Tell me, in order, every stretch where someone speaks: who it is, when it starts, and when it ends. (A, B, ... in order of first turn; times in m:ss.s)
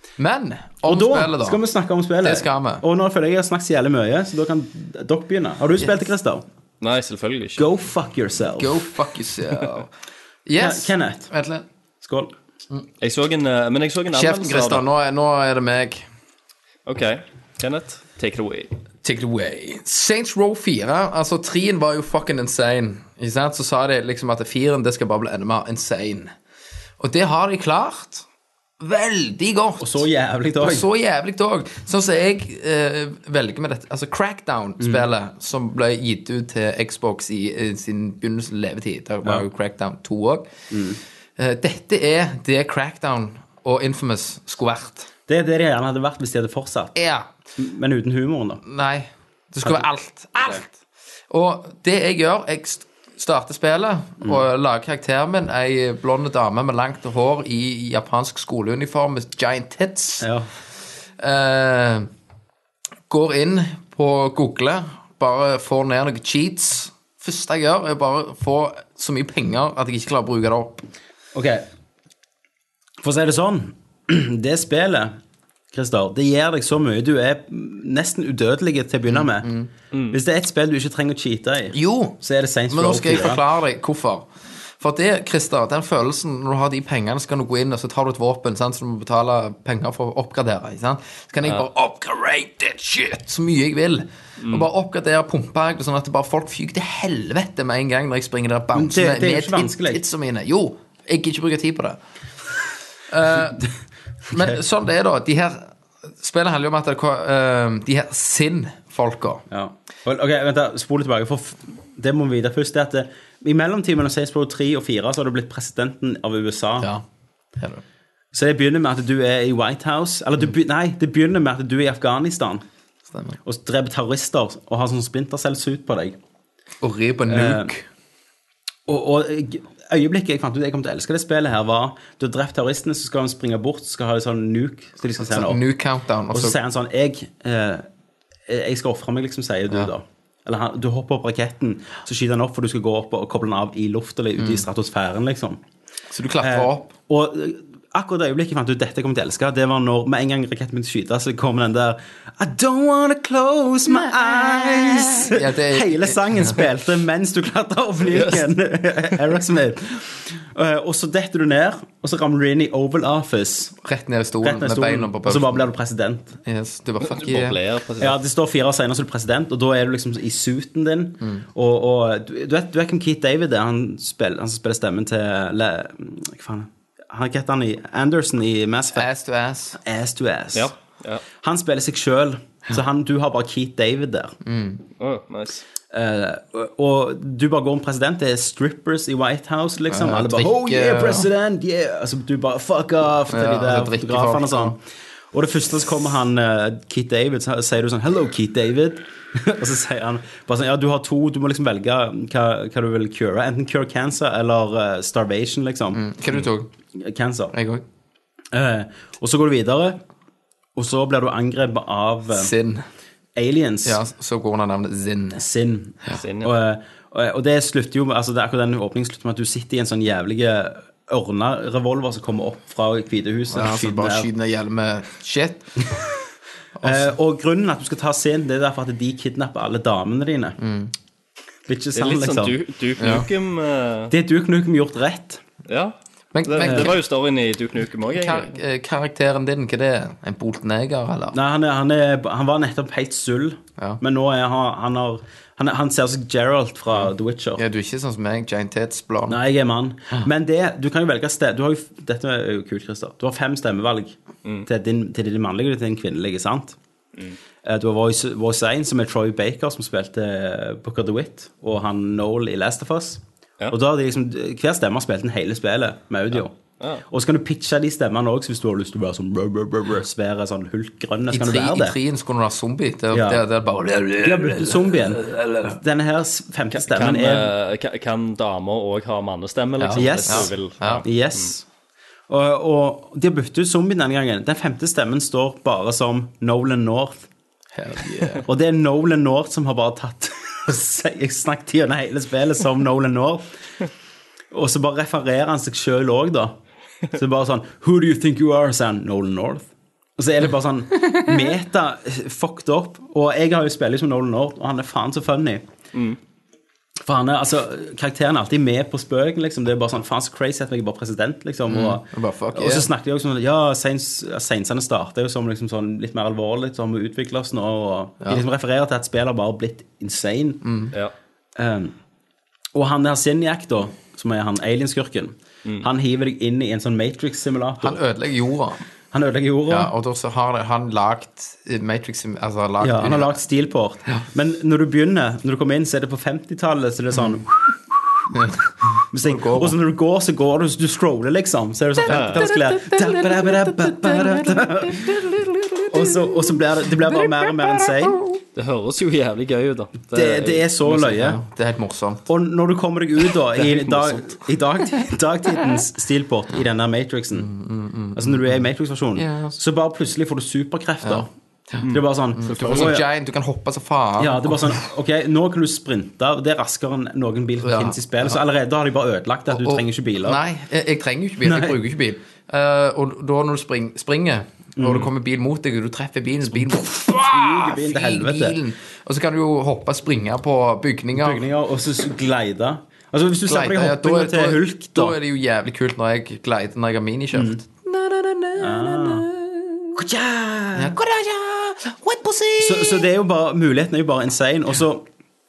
0:00.2-0:01.6 A
0:00.8-0:06.4 B
0:02.2-0:02.8 A
0:06.8-0:07.6 C
0:07.6-0:08.9 B
0:08.6-0:09.9 A
0:10.5-0:11.6 A
0:10.6-0:11.3 B
0:12.0-0:12.3 B
0:13.0-0:14.8 C
0:14.1-0:16.1 A
0:16.9-0:18.7 C
0:19.0-0:26.3 A
0:27.0-0:28.3 A
0:28.8-0:30.0 A
0:29.8-0:30.9 B
0:30.6-0:40.5 A
0:40.7-0:41.0 B
0:41.4-0:45.1 A
0:45.3-0:47.0 B
0:47.0-0:47.3 A
0:47.6-0:48.6 B
0:48.6-0:50.7 A
0:51.3-1:00.3 A
1:00.2-1:00.5 B
1:01.2-1:02.1 A
1:03.1-1:10.9 A
1:11.3-1:11.6 B
1:13.0-1:15.2 B
1:15.7-1:19.5 B
1:19.1-1:19.7 A
1:20.1-1:23.4 B
1:21.7-1:22.2 A
1:22.7-1:24.3 A
1:24.8-1:42.0 A
1:38.7-1:40.0 B
1:43.1-1:43.7 A
1:44.3-1:49.4 A
1:49.5-1:56.9 B
1:57.6-1:57.8 A
1:58.3-2:02.6 B
2:03.1-2:03.4 A
2:03.4-2:06.2 B
2:06.8-2:07.9 A
2:07.3-2:07.7 B
2:08.9-2:15.6 B
2:15.2-2:16.6 A
2:16.3-2:17.9 B
2:18.5-2:25.6 B
2:24.4-2:24.6 A
2:26.1-2:26.9 A
2:26.4-2:43.8 B
2:33.9-2:36.7 A
2:43.8-2:45.7 A
2:44.4-2:46.4 B
2:46.4-2:47.6 A
2:47.0-2:48.2 C
2:48.0-2:59.1 B
2:51.2-2:51.5 A
2:58.9-2:59.8 A
2:59.8-3:00.7 B
3:00.5-3:01.2 C
3:01.4-3:04.4 B
3:04.4-3:04.8 A
3:05.0-3:05.6 C
3:05.9-3:14.8 B
3:09.9-3:11.3 A
3:13.3-3:14.8 A
3:15.3-3:26.0 B
3:25.9-3:26.7 A
3:27.0-3:27.5 B
3:27.5-3:27.8 A
3:28.5-3:30.0 B
3:30.8-3:32.5 B
3:32.3-3:32.8 A
3:33.4-3:34.0 B
3:33.8-3:35.4 A
3:35.4-3:44.3 B
3:36.2-3:36.5 C
3:43.5-3:45.9 A
3:46.8-3:47.1 A
3:46.8-3:50.6 B
3:50.6-3:50.9 A
3:51.7-3:52.6 B
3:52.0-3:54.1 C
3:53.0-3:53.3 A
3:54.1-3:55.4 B
3:55.7-3:58.5 C
3:56.3-3:57.0 A
3:56.6-3:56.9 B
3:58.1-4:01.4 A
4:01.3-4:07.6 B
4:07.0-4:09.4 A
4:09.3-4:16.8 B
4:17.6-4:26.6 B
4:27.1-4:32.0 B
4:31.3-4:35.8 A
4:33.1-4:33.4 B
4:34.2-4:37.5 B
4:36.8-4:41.4 C
4:39.8-4:41.0 A
4:39.9-4:41.6 B
4:42.3-4:47.3 B
4:47.7-4:48.4 A
4:48.4-4:53.5 B
4:54.5-4:56.6 B
4:57.1-5:05.7 B
5:07.0-5:20.6 B
5:11.7-5:12.9 A
5:20.6-5:20.9 A
5:21.6-5:22.0 B
5:22.7-5:28.0 B
5:27.8-5:28.8 A
5:29.1-5:29.9 B
5:29.7-5:33.4 A
5:32.8-5:38.3 B
5:38.3-5:39.8 A
5:39.1-5:45.3 B
5:42.1-5:42.5 C
5:42.1-5:46.6 A
5:45.9-5:48.2 B
5:47.1-5:47.9 A
5:48.6-5:50.7 C
5:50.1-5:51.4 B
5:50.9-5:52.2 A
5:52.3-5:57.5 B
5:53.6-5:54.2 C
5:57.3-5:58.6 A
5:58.2-6:01.3 B
5:59.2-5:59.6 A
6:01.0-6:04.8 A
6:01.9-6:03.1 B
6:04.2-6:10.4 B
6:07.6-6:08.4 A
6:09.5-6:21.4 A
6:11.4-6:11.8 B
6:14.8-6:15.1 B
6:16.5-6:18.6 B
6:21.2-6:25.2 B
6:23.5-6:30.0 A
6:27.3-6:27.6 B
6:28.6-6:29.3 B
6:30.0-6:31.0 B
6:30.8-6:33.1 A
6:32.6-6:35.1 B